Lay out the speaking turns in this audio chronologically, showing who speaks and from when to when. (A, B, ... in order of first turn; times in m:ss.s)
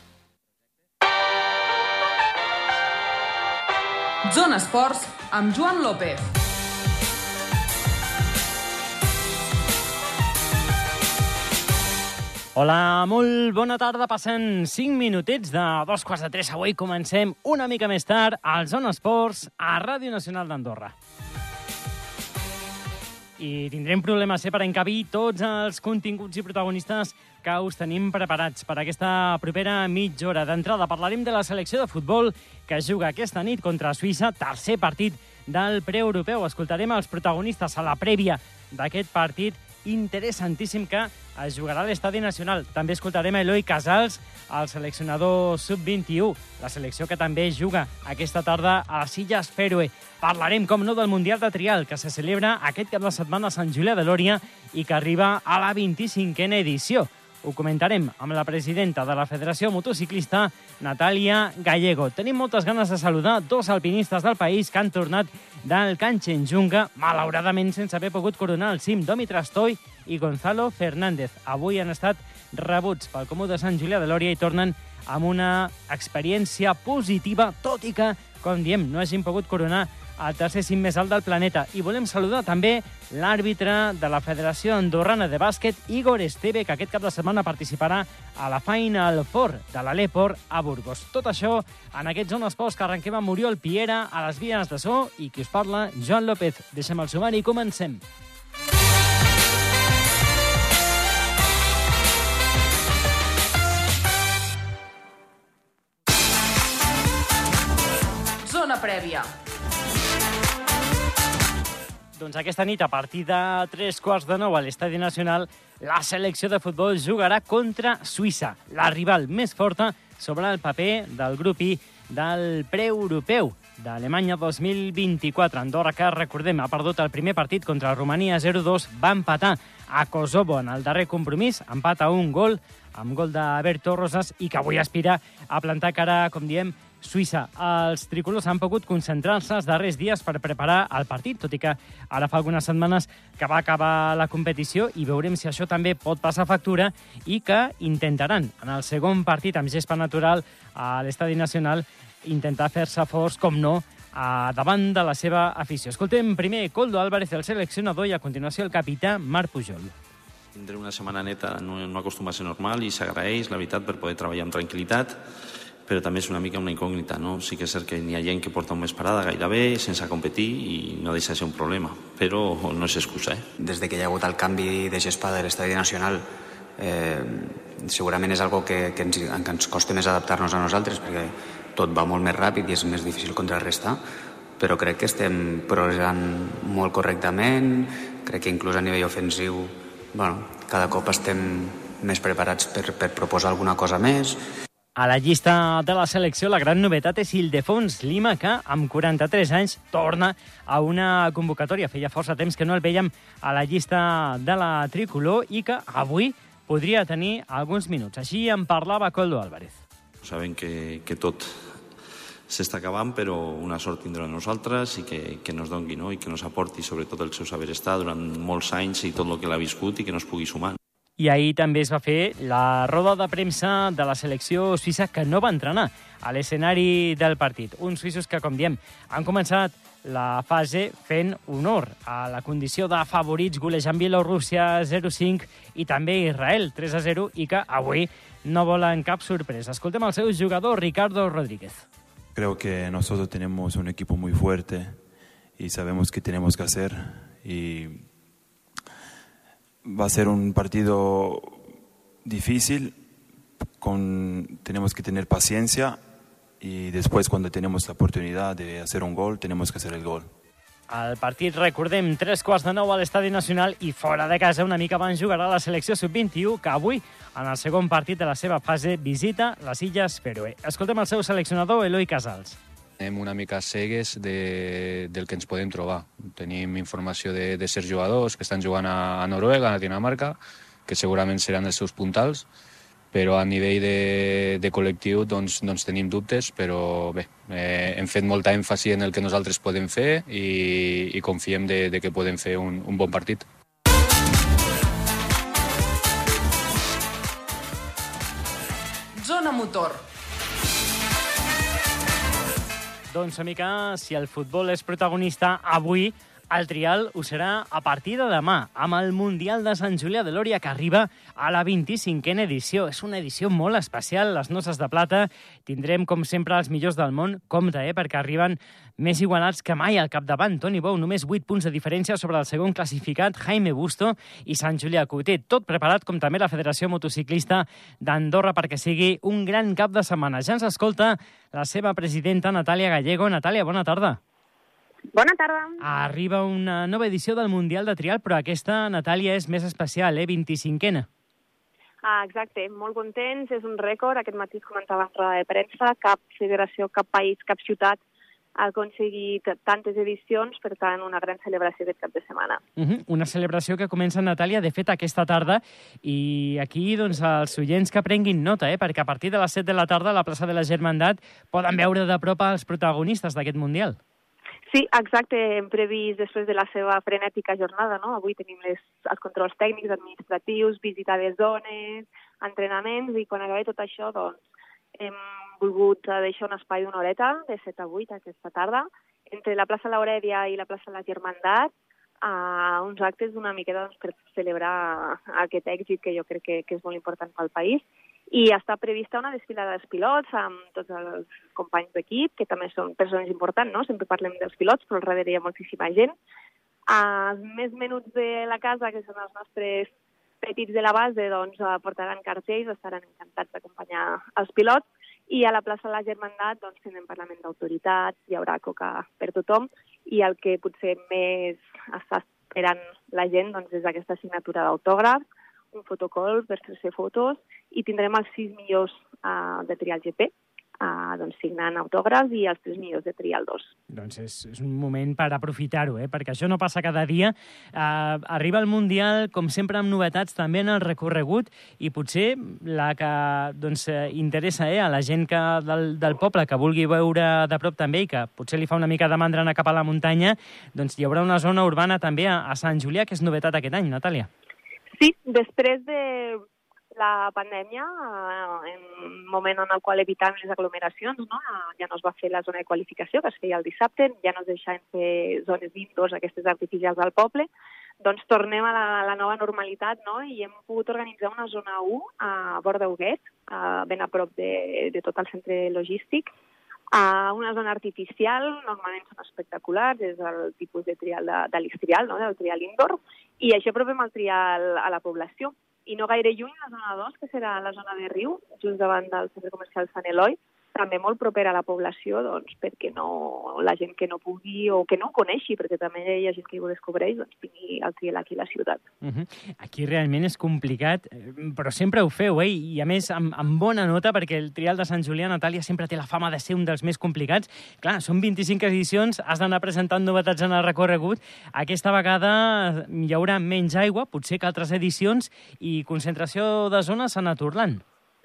0:04.3-0:06.3 A
0:12.6-0:20.9 B
0:23.4-1:38.0 B
1:48.4-1:49.3 A
1:52.2-2:39.9 B
2:40.6-2:45.2 C
2:45.9-2:53.4 C
2:53.6-2:56.2 D
2:56.8-3:04.0 D
3:04.6-3:14.4 D
3:15.0-3:29.8 B
3:30.2-3:31.8 C
3:32.5-3:40.8 C
3:41.2-4:01.9 B
4:02.4-4:05.0 E
4:05.6-4:08.1 E
4:09.8-4:11.7 E
4:12.2-4:13.0 E
4:13.8-4:16.0 E
4:16.6-4:20.3 E
4:20.9-4:32.6 B
4:33.0-4:42.5 F
4:43.1-4:53.4 F
4:59.2-5:00.0 A
5:03.1-5:34.2 B
5:35.1-5:35.8 G
5:35.8-5:41.1 B
5:42.0-5:48.0 G
5:48.6-5:52.6 G
5:52.8-6:04.0 B
6:04.7-6:14.4 G
6:15.0-6:21.7 G
6:22.2-6:36.2 G
6:36.9-6:39.9 G
6:40.4-7:03.7 G
7:03.9-7:24.3 B
7:25.0-7:26.4 G
7:27.0-7:37.5 G
7:38.0-7:46.3 G
7:46.9-8:08.8 G
8:09.0-8:27.8 B